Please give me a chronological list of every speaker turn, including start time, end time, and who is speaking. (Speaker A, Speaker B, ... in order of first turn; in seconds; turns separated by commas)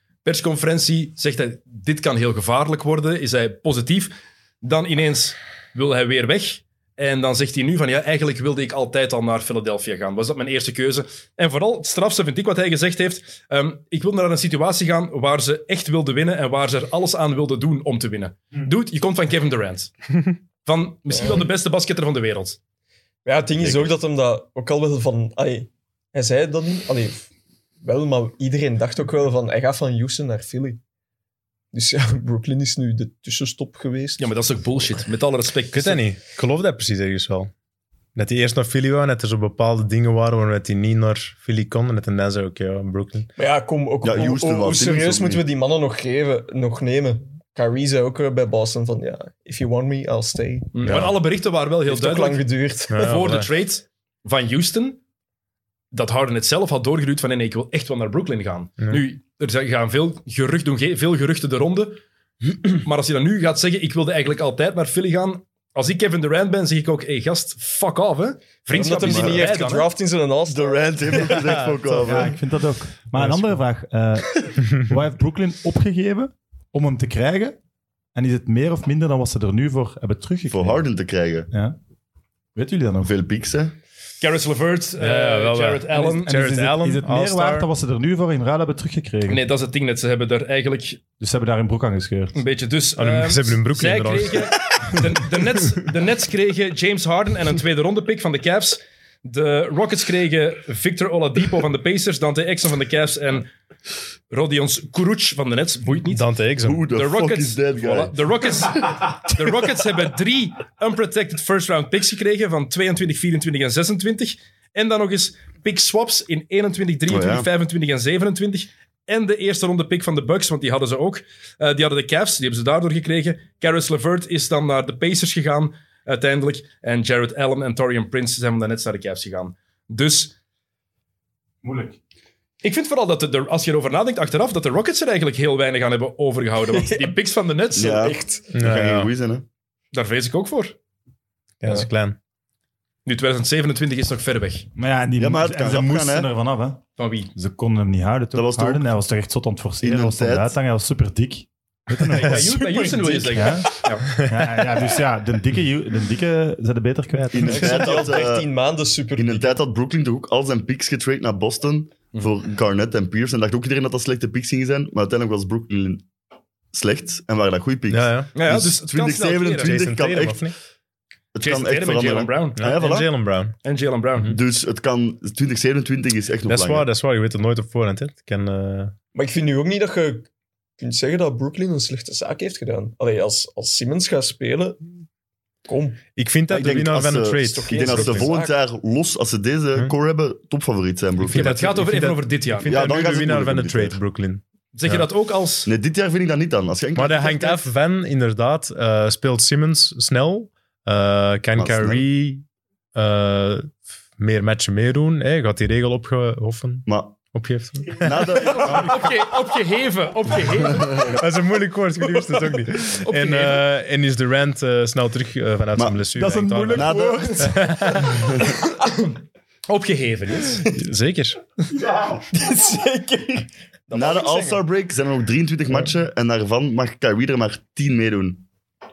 Speaker A: 0.2-20.1, Speaker A: 20.6-22.6, Speaker B: 21.1-21.5, Speaker B: 23.2-27.3, Speaker C: 23.6-23.9, Speaker B: 27.8-30.8, Speaker B: 31.7-34.3, Speaker A: 34.2-36.0, Speaker D: 35.7-37.5, Speaker D: 38.1-43.3, Speaker B: 43.4-51.1, Speaker C: 44.0-45.4, Speaker A: 50.7-52.4, Speaker D: 50.8-51.1, Speaker B: 51.9-53.2, Speaker D: 52.9-53.5, Speaker A: 53.0-55.0, Speaker A: 55.9-62.0, Speaker A: 62.6-69.9, Speaker B: 68.7-71.5, Speaker C: 68.7-69.5, Speaker C: 70.5-72.4, Speaker D: 71.3-71.5, Speaker E: 71.9-77.5, Speaker E: 78.1-80.8, Speaker C: 80.5-81.5, Speaker E: 81.5-81.8, Speaker E: 82.5-83.1, Speaker C: 83.0-83.7, Speaker A: 84.2-86.5, Speaker D: 85.0-87.7, Speaker E: 85.9-89.5, Speaker A: 89.3-91.0, Speaker E: 91.2-92.4, Speaker A: 92.3-103.5, Speaker D: 93.0-94.5, Speaker A: 104.3-106.2, Speaker D: 106.1-106.8, Speaker C: 106.6-108.6, Speaker A: 106.9-130.3, Speaker C: 117.1-117.5, Speaker E: 131.6-132.0, Speaker A: 132.6-138.1, Speaker B: 136.7-137.2, Speaker C: 137.7-139.4, Speaker B: 137.9-138.5, Speaker D: 138.5-139.1, Speaker A: 139.9-140.7, Speaker D: 141.6-142.2, Speaker A: 143.1-144.7, Speaker E: 144.8-146.8, Speaker C: 145.2-146.3, Speaker A: 147.0-147.3, Speaker E: 147.3-157.6, Speaker C: 148.3-148.9, Speaker C: 149.8-150.5, Speaker A: 152.2-154.1, Speaker B: 152.8-153.4, Speaker D: 154.2-154.6, Speaker D: 157.1-157.9, Speaker C: 157.3-158.5, Speaker B: 157.4-159.5, Speaker C: 159.2-166.0, Speaker C: 166.7-170.4, Speaker D: 167.9-168.3, Speaker A: 168.3-169.8, Speaker D: 169.6-170.5, Speaker C: 171.3-173.1, Speaker A: 171.4-172.7, Speaker D: 172.6-173.6, Speaker A: 173.6-174.4, Speaker C: 174.3-176.9, Speaker D: 176.4-178.9, Speaker B: 179.1-180.3, Speaker B: 180.8-184.8, Speaker B: 185.7-186.0, Speaker D: 186.2-188.3, Speaker C: 186.5-191.8, Speaker B: 187.5-188.5, Speaker D: 191.2-195.0, Speaker A: 191.3-192.8, Speaker C: 192.7-194.0, Speaker A: 194.7-195.7, Speaker C: 195.7-197.6, Speaker D: 196.9-202.4, Speaker C: 201.6-202.0, Speaker D: 202.9-209.0, Speaker C: 206.9-207.2, Speaker C: 207.9-209.0, Speaker A: 208.4-211.1, Speaker D: 211.1-218.3, Speaker A: 213.0-213.6, Speaker C: 215.8-216.0, Speaker E: 216.2-217.5, Speaker C: 216.7-218.6, Speaker B: 217.1-217.5, Speaker A: 218.8-220.7, Speaker D: 220.7-221.4, Speaker B: 221.9-224.6, Speaker A: 223.9-224.4, Speaker C: 223.9-228.4